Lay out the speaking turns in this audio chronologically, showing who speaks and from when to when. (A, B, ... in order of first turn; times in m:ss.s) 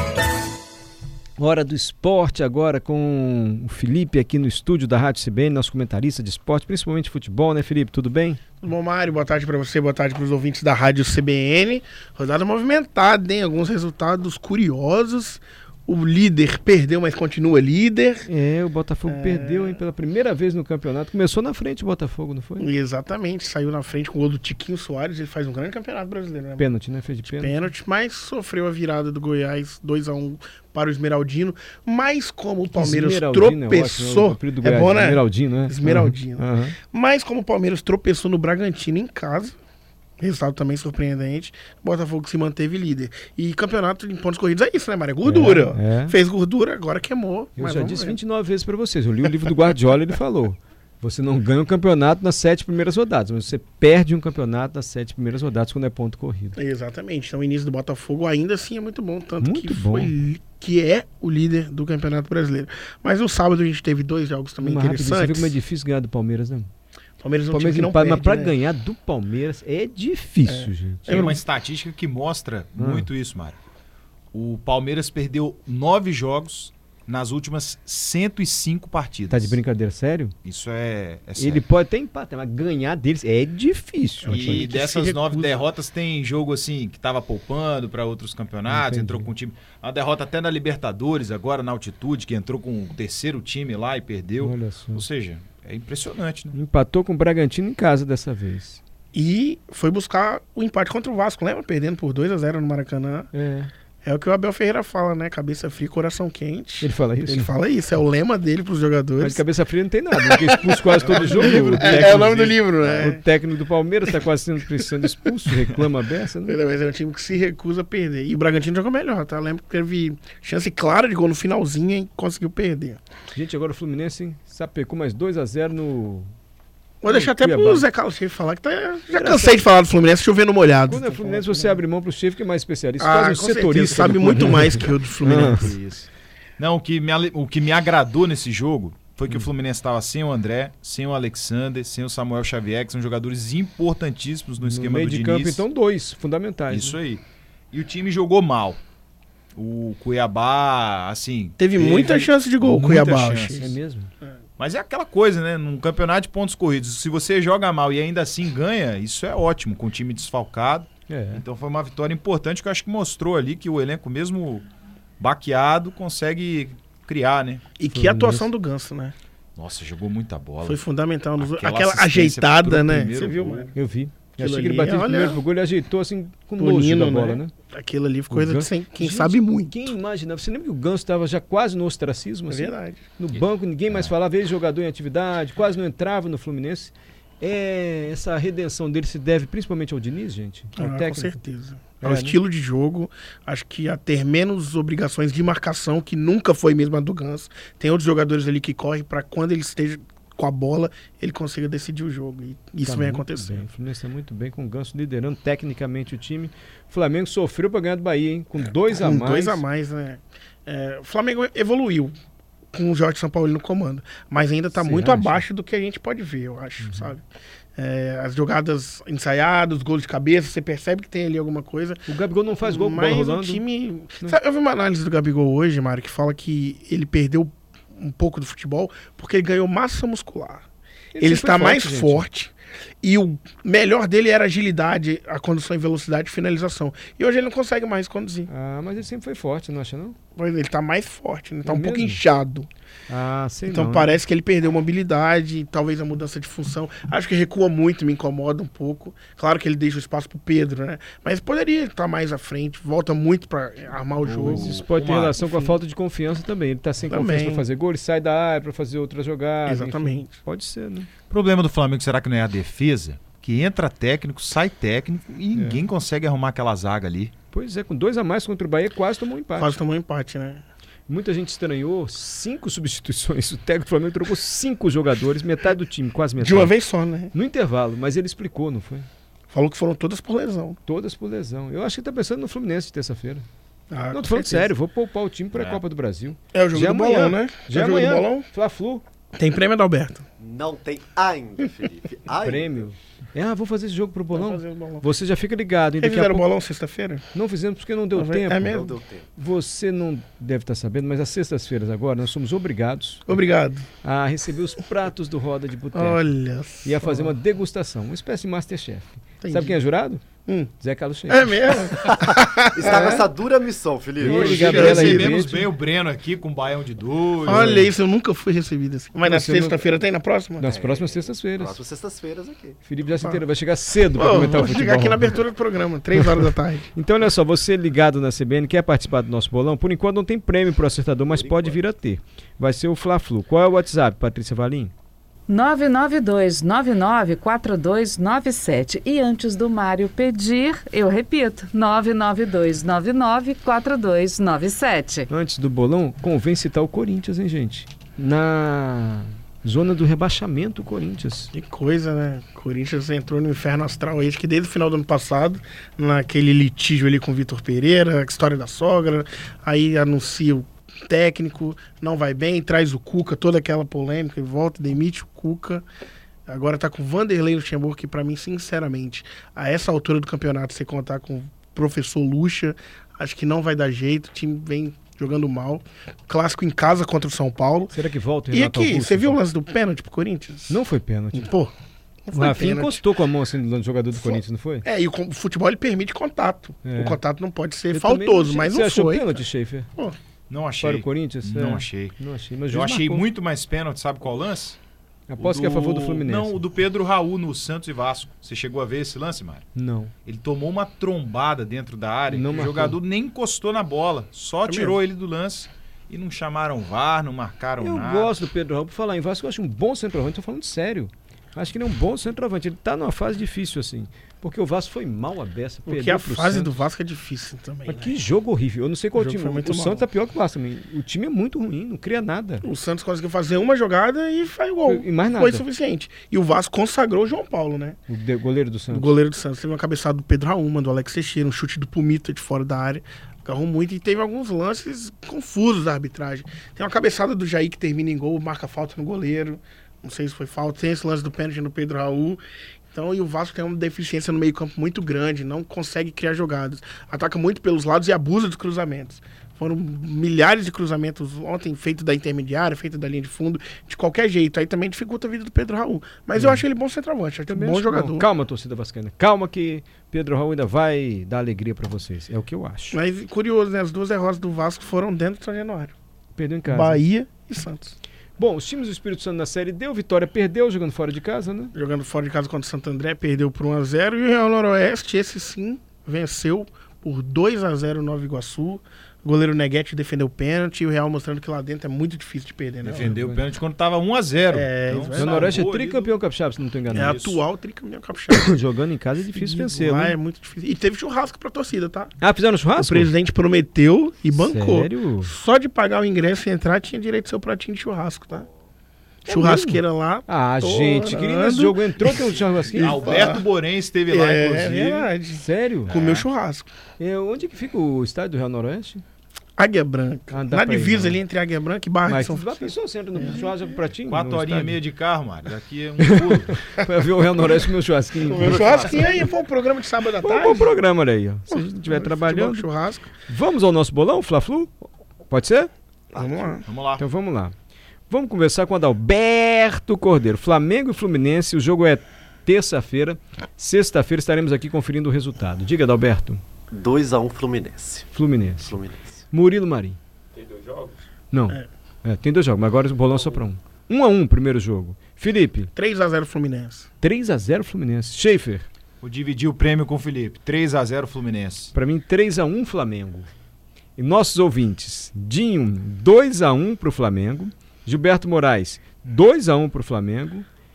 0:01.4-0:08.4 A
0:08.6-0:18.3 B
0:18.3-0:22.7 A
0:19.1-0:19.8 B
0:22.6-0:26.6 B
0:26.6-0:27.5 A
0:27.2-0:39.6 B
0:32.6-0:36.8 A
0:40.2-0:48.2 B
0:45.2-0:46.1 A
0:47.6-0:56.6 A
0:56.6-1:05.6 B
0:59.4-1:00.1 A
1:04.6-1:06.7 A
1:07.2-1:08.6 B
1:07.5-1:11.3 A
1:10.4-1:11.4 B
1:11.1-1:13.6 C
1:12.8-1:13.1 A
1:14.3-1:19.6 C
1:19.3-1:20.3 A
1:20.4-1:21.6 C
1:21.4-1:24.7 A
1:24.2-1:25.6 B
1:24.3-1:36.5 C
1:28.7-1:29.3 A
1:34.4-1:35.0 A
1:36.5-1:38.8 A
1:39.1-1:43.3 B
1:43.3-1:43.7 A
1:44.0-1:49.4 B
1:46.8-1:47.5 A
1:49.2-1:56.6 A
1:50.2-1:53.2 B
1:51.0-1:53.1 C
1:56.4-2:03.0 B
2:03.3-2:06.3 A
2:07.0-2:11.8 B
2:07.0-2:07.9 A
2:09.1-2:09.6 A
2:10.8-2:15.7 A
2:13.0-2:15.7 B
2:15.4-2:25.6 C
2:24.6-2:27.0 A
2:26.7-2:28.8 C
2:29.5-2:33.6 C
2:31.6-2:33.8 B
2:33.6-2:34.1 A
2:34.6-2:44.7 C
2:41.1-2:41.4 A
2:45.2-2:47.6 C
2:47.8-2:49.1 B
2:47.9-2:48.5 A
2:49.6-2:50.8 C
2:50.6-2:53.7 B
2:51.4-2:53.7 C
2:53.7-2:57.5 A
2:54.4-2:55.4 B
2:56.6-2:59.9 B
2:58.3-3:11.4 A
3:02.5-3:03.0 B
3:10.8-3:23.6 B
3:12.0-3:12.4 A
3:22.8-3:29.6 A
3:28.8-3:32.1 B
3:32.7-3:37.2 B
3:34.7-3:35.4 A
3:36.8-3:37.1 A
3:37.8-3:50.6 B
3:42.0-3:43.6 A
3:51.1-3:52.2 A
3:51.2-3:58.5 B
3:58.5-4:00.2 A
4:00.3-4:02.7 B
4:01.6-4:02.2 A
4:03.1-4:04.1 A
4:03.7-4:14.8 B
4:14.3-4:15.4 C
4:14.4-4:21.1 A
4:15.4-4:15.8 B
4:17.0-4:17.6 B
4:19.6-4:20.4 B
4:21.3-4:27.3 C
4:25.5-4:25.8 A
4:27.5-4:29.7 A
4:29.6-4:30.6 B
4:31.1-4:36.8 A
4:36.4-4:37.3 B
4:37.3-4:39.1 A
4:39.5-4:40.8 B
4:40.8-4:43.4 A
4:43.9-4:44.7 B
4:44.1-4:49.0 A
4:45.5-4:45.8 C
4:46.5-4:48.5 B
4:49.3-4:50.2 B
4:50.4-4:52.8 D
4:52.4-4:56.4 A
4:54.3-4:55.1 B
4:56.0-4:57.2 B
4:57.3-4:58.8 A
4:58.1-4:58.9 B
4:58.6-4:59.2 D
4:59.4-5:03.4 A
5:03.3-5:03.8 B
5:04.0-5:06.2 A
5:05.9-5:07.3 B
5:06.8-5:10.2 A
5:09.4-5:09.8 B
5:10.8-5:11.6 A
5:11.3-5:13.2 B
5:12.7-5:14.9 D
5:12.8-5:13.2 A
5:14.2-5:15.7 A
5:14.2-5:15.4 B
5:14.5-5:17.9 C
5:17.4-5:20.6 B
5:17.5-5:17.9 A
5:19.2-5:20.0 A
5:20.6-5:21.8 A
5:20.6-5:22.8 D
5:22.8-5:25.3 A
5:23.2-5:23.4 B
5:24.1-5:26.9 B
5:26.1-5:34.9 A
5:31.3-5:31.8 D
5:35.5-5:45.3 E
5:45.3-5:51.5 A
5:51.5-6:05.8 B
6:06.5-6:17.9 B
6:17.9-6:19.4 A
6:18.5-6:21.7 B
6:20.7-6:21.5 A
6:22.3-6:23.0 B
6:22.3-6:24.8 A
6:24.1-6:29.4 B
6:26.8-6:27.2 A
6:27.9-6:29.9 A
6:30.5-6:32.1 C
6:30.8-6:33.2 A
6:32.7-6:34.8 C
6:35.3-6:36.6 A
6:35.4-6:39.6 C
6:39.7-6:40.1 A
6:40.2-6:48.3 C
6:42.3-6:43.0 A
6:44.6-6:45.0 B
6:47.8-6:56.7 A
6:55.9-6:58.2 B
6:57.9-7:02.6 A
6:59.1-7:00.1 B
7:02.6-7:08.0 B
7:04.8-7:05.6 A
7:08.1-7:09.1 A
7:08.9-7:38.3 B
7:36.4-7:36.6 A
7:37.5-7:43.0 A
7:42.9-7:45.9 B
7:46.3-7:47.0 A
7:46.7-7:48.0 B
7:48.4-7:51.7 A
7:51.7-8:03.2 B
8:02.8-8:06.1 C
8:03.0-8:03.4 A
8:04.5-8:05.6 B
8:05.1-8:07.2 A
8:06.9-8:07.4 C
8:06.9-8:08.6 B
8:08.3-8:10.2 A
8:09.3-8:12.2 B
8:12.2-8:13.1 A
8:12.8-8:18.5 B
8:14.3-8:15.3 A
8:19.2-8:23.3 A
8:19.2-8:23.4 B
8:22.8-8:25.1 C
8:24.1-8:26.7 B
8:25.3-8:25.9 A
8:25.8-8:26.2 C
8:27.0-8:29.0 A
8:29.6-8:33.6 B
8:30.3-8:31.2 A
8:32.0-8:34.8 A
8:34.1-8:36.6 C
8:36.0-8:39.0 A
8:38.2-8:40.8 B
8:38.3-8:39.3 D
8:40.2-8:42.6 A
8:41.5-8:43.1 B
8:43.3-8:45.7 A
8:46.1-8:46.6 B
8:46.1-8:46.6 D
8:46.6-8:47.0 C
8:47.0-8:47.5 A
8:48.1-8:56.4 A
8:56.7-8:58.1 D
8:58.1-8:58.8 A
8:58.6-8:59.2 D
8:59.3-9:00.0 A
9:01.3-9:05.7 A
9:05.7-9:06.9 B
9:07.0-9:08.7 A
9:09.0-9:11.7 C
9:11.7-9:13.3 A
9:14.0-9:20.4 A